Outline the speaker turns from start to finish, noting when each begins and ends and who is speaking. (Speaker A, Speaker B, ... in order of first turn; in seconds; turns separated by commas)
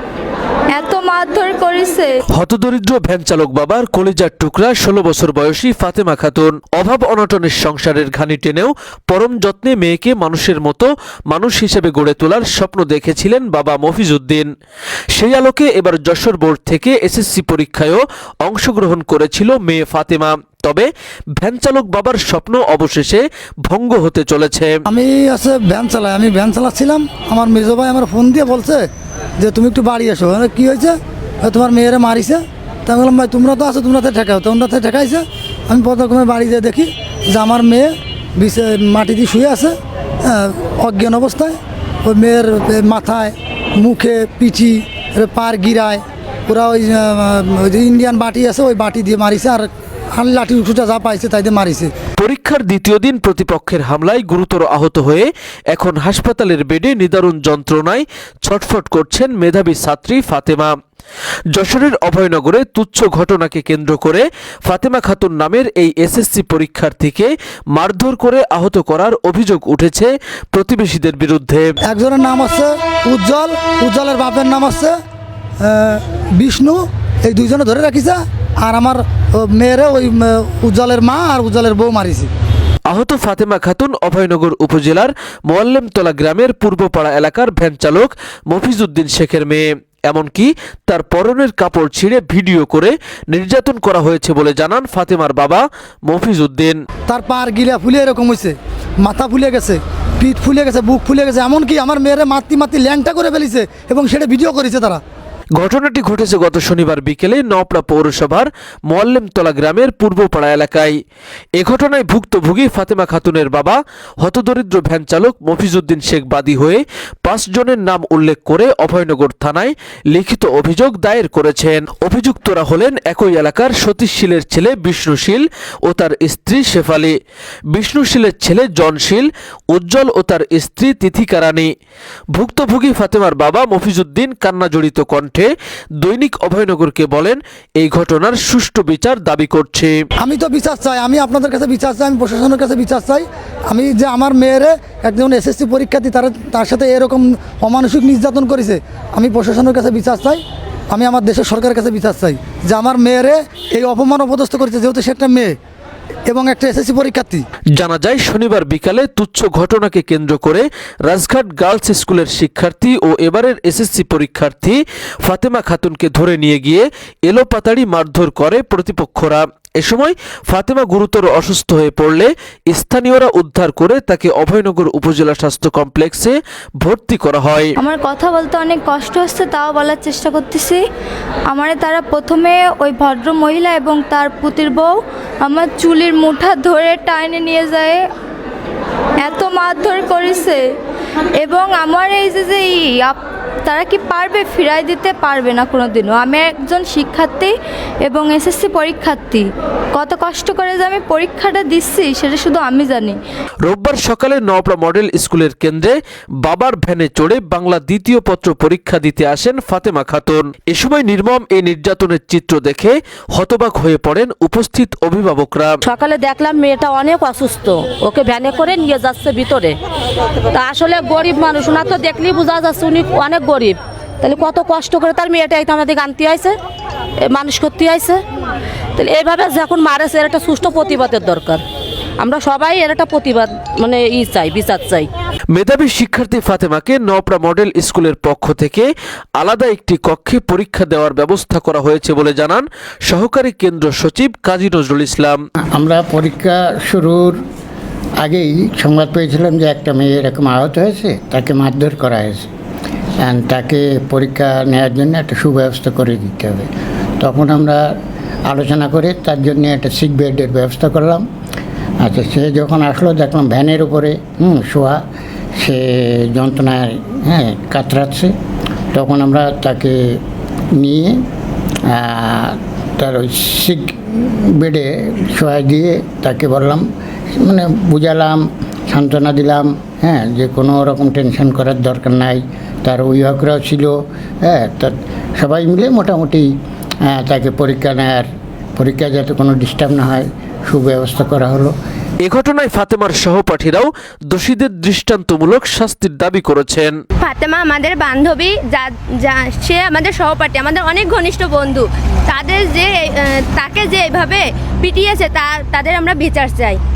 Speaker A: 0.7-2.1, Speaker B: 2.3-14.5, Speaker B: 15.1-24.7, Speaker C: 24.9-51.9, Speaker B: 52.2-60.7, Speaker B: 61.5-71.7, Speaker C: 71.8-75.0, Speaker C: 75.6-82.3, Speaker B: 82.9-96.8, Speaker C: 97.1-105.0, Speaker B: 105.6-110.9, Speaker B: 111.6-127.1, Speaker B: 127.7-131.7, Speaker B: 132.3-140.0, Speaker C: 140.2-155.6, Speaker C: 156.3-157.4, Speaker B: 157.8-177.7, Speaker A: 177.8-180.8, Speaker A: 181.5-188.1, Speaker A: 189.2-190.6, Speaker A: 191.4-197.5, Speaker A: 198.0-203.2, Speaker B: 203.6-215.8, Speaker D: 215.8-219.7, Speaker D: 220.5-226.5, Speaker D: 227.3-228.2, Speaker D: 229.0-231.6, Speaker D: 232.2-235.1, Speaker B: 235.5-245.4, Speaker E: 245.7-247.4, Speaker E: 248.2-252.5, Speaker E: 253.2-256.7, Speaker E: 257.2-257.9, Speaker E: 258.5-261.2, Speaker E: 262.0-265.0, Speaker E: 265.6-268.3, Speaker E: 268.9-270.2, Speaker E: 270.7-271.2, Speaker E: 271.9-276.8, Speaker E: 277.4-286.5, Speaker E: 287.1-291.7, Speaker B: 292.2-296.9, Speaker F: 297.2-306.8